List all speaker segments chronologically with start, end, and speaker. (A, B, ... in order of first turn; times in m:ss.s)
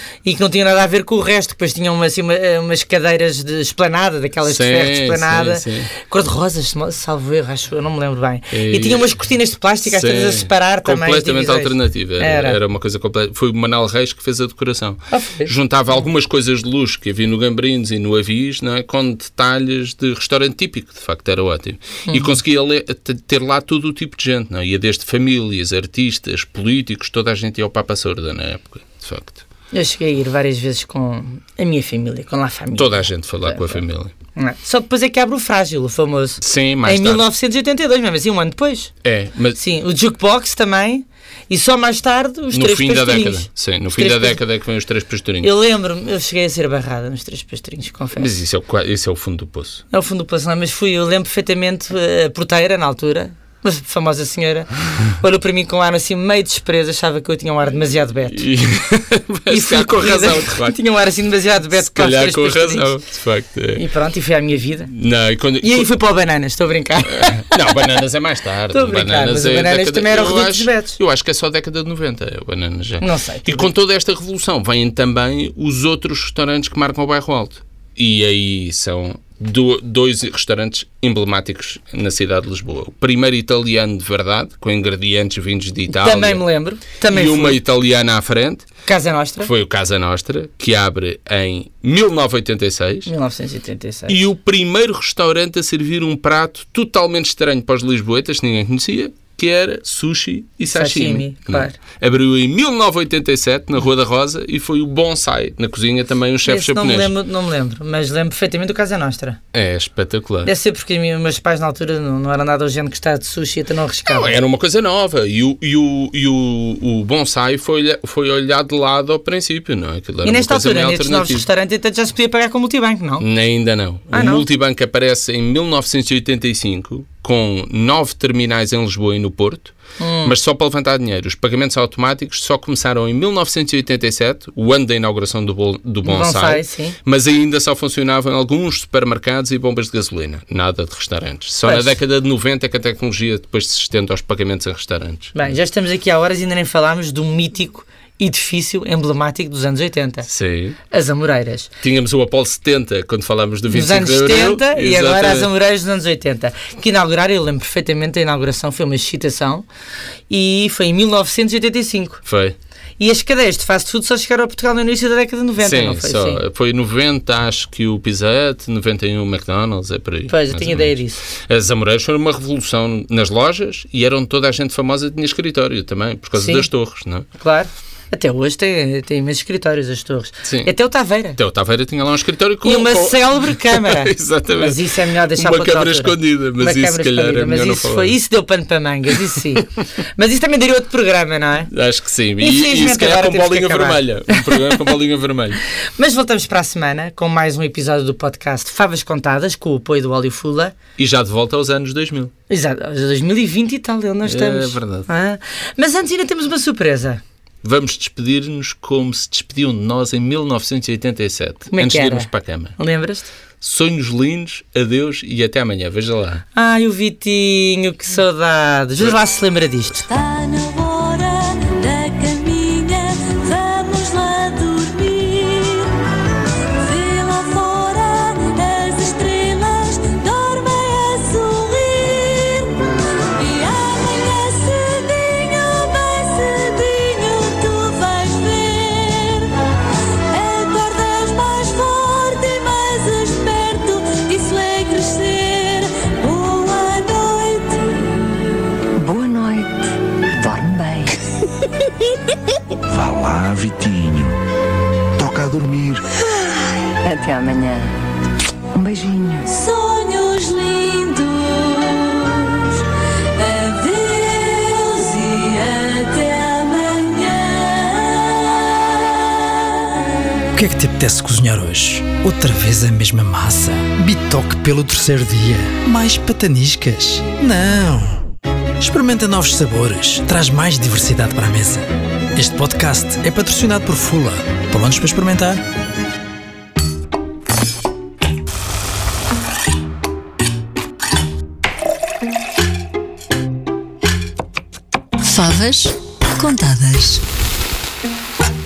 0:00.2-0:12.6 A
0:04.4-0:05.9 B
0:08.5-0:09.1 B
0:09.8-0:29.4 B
0:15.1-0:15.5 A
0:22.1-0:22.3 A
0:29.7-0:33.8 A
0:32.7-0:34.1 B
0:34.4-0:38.9 A
0:36.4-0:37.2 B
0:39.0-0:39.6 B
0:39.6-0:44.4 A
0:42.5-0:45.5 B
0:45.4-0:48.3 A
0:48.2-0:49.8 B
0:49.9-0:58.4 A
0:58.3-1:00.7 B
0:59.5-1:02.9 A
1:01.7-1:03.8 B
1:03.7-1:04.9 A
1:04.9-1:05.9 B
1:05.6-1:07.8 A
1:07.1-1:26.4 B
1:08.7-1:11.0 A
1:13.0-1:13.7 A
1:25.9-1:27.6 A
1:27.1-1:28.6 B
1:28.8-1:29.5 A
1:29.4-1:33.1 B
1:33.0-1:34.2 A
1:34.1-1:47.1 B
1:40.7-1:41.8 A
1:46.4-1:49.4 A
1:49.5-1:50.5 B
1:50.4-1:54.3 A
1:54.1-2:01.4 B
2:00.2-2:03.2 A
2:03.2-2:25.4 B
2:04.1-2:04.4 A
2:10.0-2:10.4 A
2:16.0-2:17.0 A
2:21.6-2:21.9 A
2:25.3-2:30.3 A
2:30.3-2:30.8 B
2:30.9-2:31.7 A
2:31.8-2:35.5 B
2:33.7-2:39.6 A
2:40.3-2:42.2 A
2:42.2-2:42.5 B
2:43.0-2:46.4 A
2:45.6-2:57.2 B
2:50.3-2:51.2 A
2:56.3-2:56.7 A
2:57.4-3:01.4 A
3:00.4-3:00.7 B
3:01.4-3:08.2 B
3:02.6-3:11.7 A
3:11.7-3:15.6 B
3:12.4-3:14.9 A
3:16.0-3:20.7 A
3:21.0-3:22.3 B
3:22.5-3:27.2 A
3:24.2-3:25.1 B
3:27.6-3:32.8 B
3:31.7-3:33.3 A
3:33.6-3:36.4 B
3:36.5-3:40.3 A
3:40.1-3:45.9 C
3:46.8-3:59.6 C
4:00.3-4:08.1 C
4:09.0-4:09.8 D
4:10.3-4:11.2 D
4:12.9-4:14.4 E
4:15.2-4:16.0 E
4:17.0-4:17.9 D
4:18.7-4:19.5 D
4:19.6-4:22.6 C
4:23.4-4:28.4 C
4:30.5-4:38.2 F
4:38.8-4:45.6 F
4:55.2-4:57.2 C